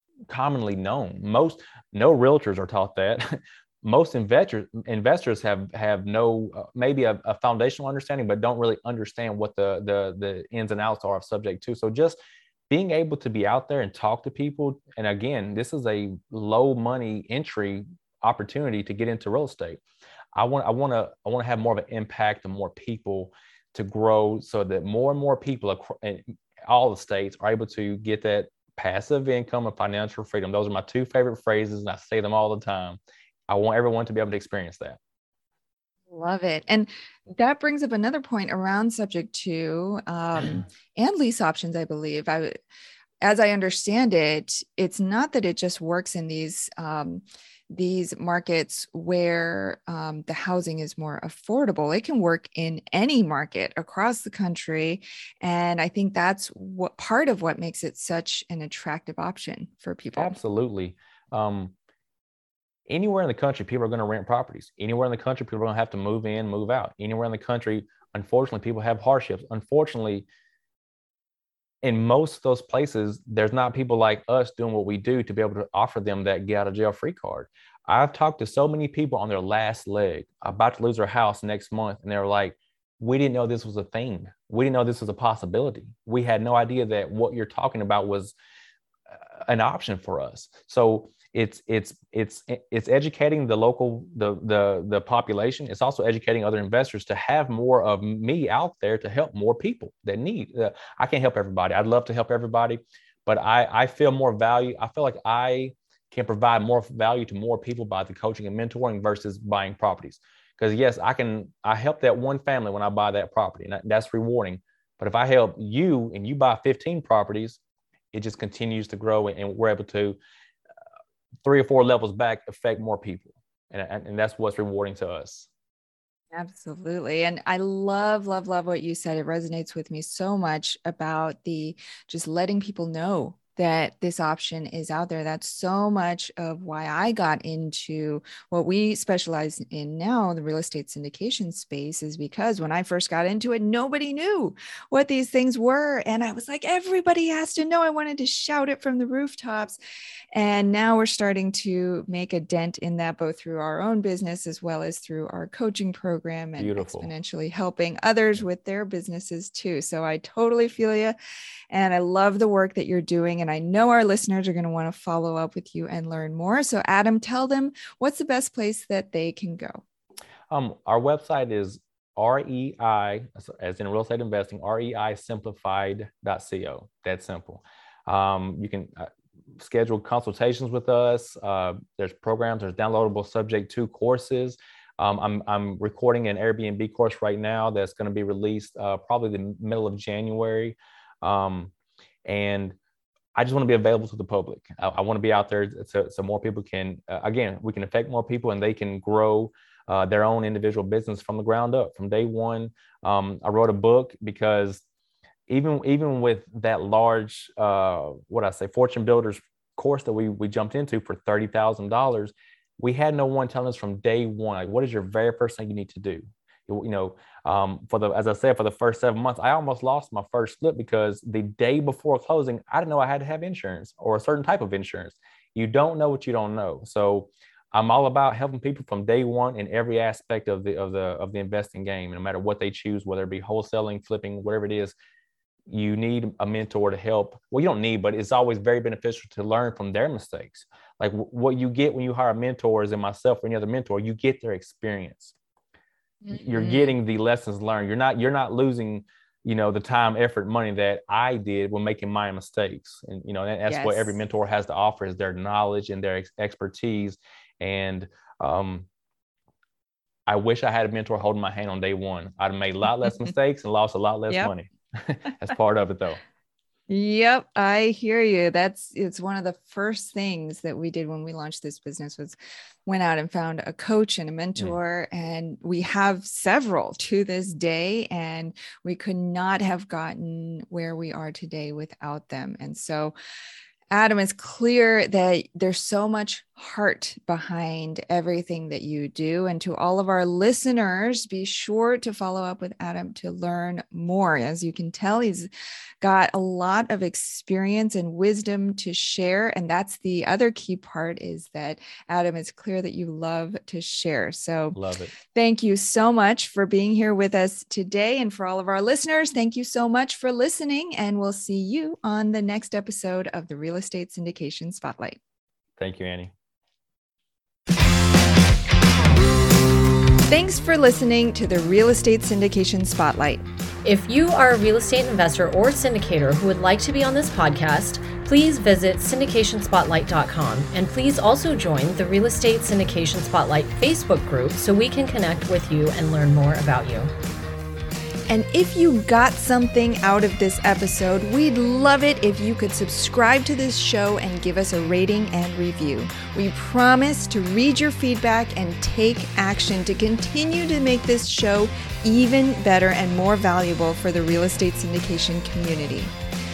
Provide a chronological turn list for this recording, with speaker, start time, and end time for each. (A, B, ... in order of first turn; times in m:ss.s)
0:00.3-0:12.2 A
0:12.7-0:19.8 A
0:20.4-0:35.0 A
0:36.1-0:42.6 B
0:43.2-1:00.4 B
1:00.2-1:01.7 A
1:02.9-1:10.3 A
1:11.8-1:28.3 A
1:29.1-1:57.6 A
1:58.1-2:00.2 A
2:01.4-2:05.5 A
2:06.3-2:29.8 B
2:30.3-2:41.2 B
2:36.6-2:37.1 A
2:41.7-2:49.8 B
2:50.5-3:11.7 A
3:12.3-3:12.8 A
3:13.4-3:24.8 A
3:25.5-3:55.0 A
3:55.7-4:05.4 A
4:06.2-4:07.0 B
4:06.3-4:18.9 A
4:13.7-4:14.2 B
4:20.3-4:26.2 A
4:26.9-4:43.2 B
4:43.9-4:55.5 B
4:56.0-5:04.8 B
5:04.8-5:05.1 A
5:05.3-5:15.2 B
5:15.8-5:16.3 A
5:20.3-5:23.4 B
5:23.8-5:37.1 C
5:38.3-5:56.1 B